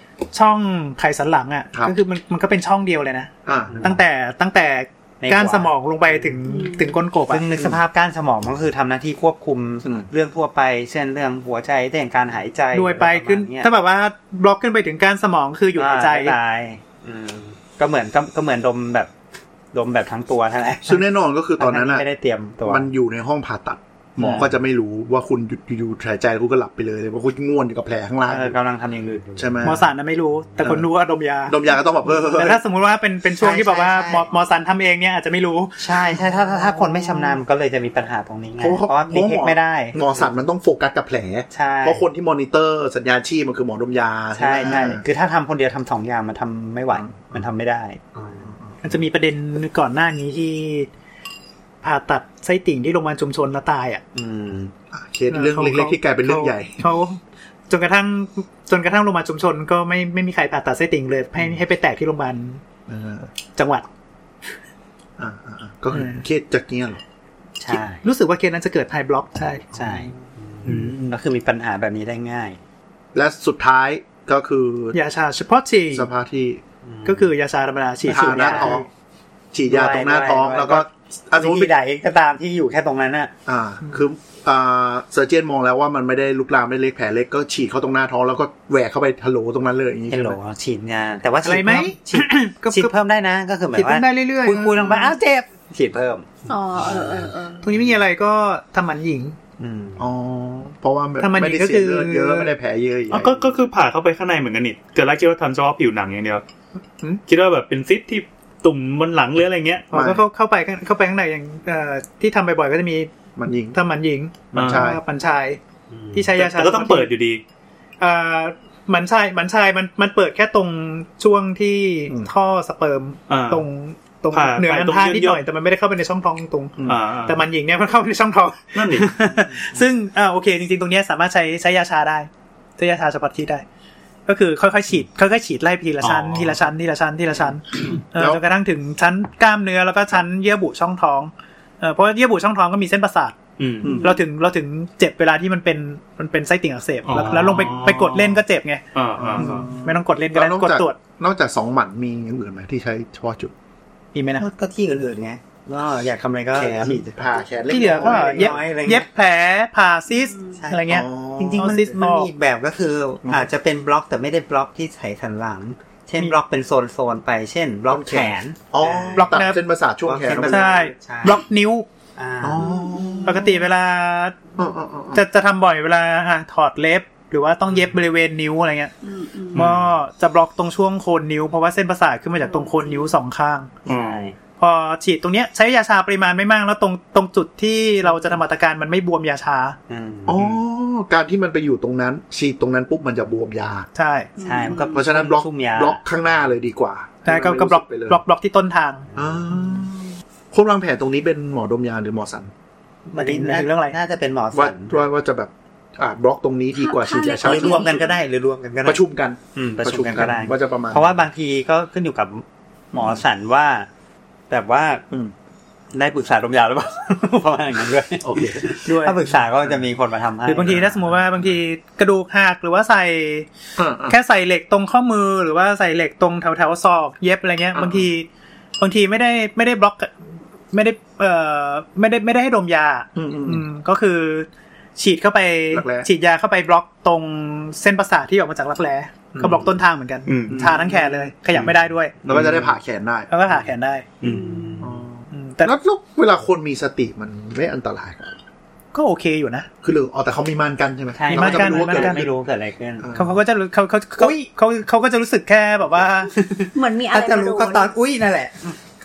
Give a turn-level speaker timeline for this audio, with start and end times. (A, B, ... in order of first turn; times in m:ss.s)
0:00.3-0:07.5 A
0:03.5-0:04.0 B
0:03.7-0:04.0 C
0:05.2-0:06.3 C
0:06.5-0:06.9 D
0:07.3-0:13.7 C
0:12.7-0:16.4 A
0:15.8-0:19.1 C
0:19.7-0:21.0 C
0:20.8-0:22.0 B
0:21.6-0:22.9 C
0:22.6-0:28.6 B
0:24.2-0:24.5 C
0:28.3-0:29.8 C
0:29.4-0:29.8 B
0:29.6-0:31.6 A
0:30.6-0:30.9 B
0:31.5-0:32.6 B
0:32.1-0:36.0 A
0:33.4-0:34.3 C
0:35.8-0:40.0 C
0:38.6-0:45.0 B
0:41.5-0:42.0 C
0:44.4-0:48.4 C
0:46.9-0:47.4 B
0:48.2-0:48.5 B
0:48.8-0:50.9 A
0:51.8-0:54.0 A
0:54.2-0:54.7 C
0:54.9-0:56.8 B
0:55.3-1:02.6 A
1:02.9-1:03.3 B
1:03.6-1:03.9 A
1:05.2-1:07.0 B
1:05.9-1:06.2 A
1:07.6-1:08.0 C
1:07.7-1:09.8 A
1:09.7-1:12.6 C
1:10.7-1:11.0 B
1:13.1-1:15.0 B
1:14.9-1:16.1 A
1:15.9-1:16.6 B
1:16.8-1:17.3 C
1:17.0-1:18.9 A
1:18.0-1:18.9 B
1:18.1-1:18.8 C
1:19.5-1:21.7 B
1:19.7-1:23.3 C
1:23.5-1:30.4 B
1:30.1-1:36.3 C
1:31.4-1:32.9 A
1:33.7-1:35.1 A
1:34.6-1:35.0 B
1:36.5-1:37.7 D
1:36.9-1:37.2 C
1:37.6-1:39.4 A
1:39.6-1:40.1 C
1:40.0-1:43.4 B
1:41.2-1:42.5 A
1:43.1-1:46.4 E
1:47.3-1:49.9 E
1:49.9-1:50.2 B
1:49.9-1:53.1 A
1:53.4-1:53.8 B
1:53.7-1:55.6 A
1:54.5-1:55.0 B
1:54.5-1:54.9 E
1:55.9-1:56.3 C
1:56.1-1:57.1 A
1:56.4-1:57.4 E
1:58.0-2:13.6 A
2:03.3-2:03.6 E
2:04.3-2:05.4 E
2:06.8-2:07.4 E
2:08.8-2:09.2 E
2:14.3-2:28.8 A
2:16.0-2:16.6 E
2:18.2-2:18.4 B
2:23.6-2:24.0 E
2:23.8-2:24.1 B
2:23.9-2:24.2 D
2:27.1-2:28.3 E
2:28.9-2:29.7 E
2:29.2-2:33.5 B
2:29.3-2:31.0 A
2:34.1-2:34.5 A
2:34.4-2:39.1 C
2:36.5-2:38.6 B
2:37.7-2:42.3 A
2:40.1-2:40.6 D
2:40.6-2:49.4 C
2:40.9-2:41.9 B
2:47.9-2:50.8 B
2:49.2-2:49.6 A
2:50.0-2:51.4 C
2:50.4-2:51.9 A
2:52.2-2:52.8 C
2:52.4-2:53.5 B
2:52.6-2:53.5 D
2:53.2-2:54.4 A
2:54.6-2:55.2 B
2:55.1-2:58.9 A
2:59.0-2:59.6 D
2:59.6-2:59.9 E
2:59.6-3:03.7 A
3:02.4-3:03.1 D
3:03.9-3:04.3 E
3:03.9-3:04.3 C
3:04.6-3:09.8 A
3:09.9-3:10.5 C
3:10.3-3:13.9 B
3:14.0-3:14.3 A
3:14.4-3:15.0 D
3:14.4-3:16.0 C
3:14.8-3:18.2 B
3:17.2-3:19.1 A
3:19.2-3:19.5 C
3:19.2-3:22.5 B
3:23.1-3:24.0 A
3:23.2-3:25.0 C
3:24.5-3:28.0 B
3:26.8-3:28.2 D
3:27.4-3:29.0 C
3:28.8-3:31.2 B
3:29.6-3:33.9 C
3:34.5-3:35.0 C
3:35.9-3:41.1 C
3:38.2-3:38.8 B
3:38.8-3:39.2 A
3:40.4-3:43.5 A
3:43.8-3:44.2 B
3:44.1-3:48.3 A
3:47.8-3:48.0 B
3:48.8-3:50.1 A
3:50.7-4:02.2 A
3:53.2-3:53.6 B
3:55.7-3:56.1 B
3:59.4-3:59.6 B
4:00.3-4:00.7 E
4:00.5-4:01.3 B
4:02.2-4:03.3 B
4:03.3-4:04.1 A
4:04.2-4:04.6 E
4:04.2-4:04.9 D
4:04.8-4:08.4 B
4:05.3-4:05.7 A
4:08.9-4:09.7 A
4:09.8-4:12.3 B
4:11.2-4:13.1 C
4:11.3-4:12.3 A
4:13.0-4:13.4 B
4:13.2-4:16.3 A
4:16.4-4:18.8 C
4:16.7-4:17.9 D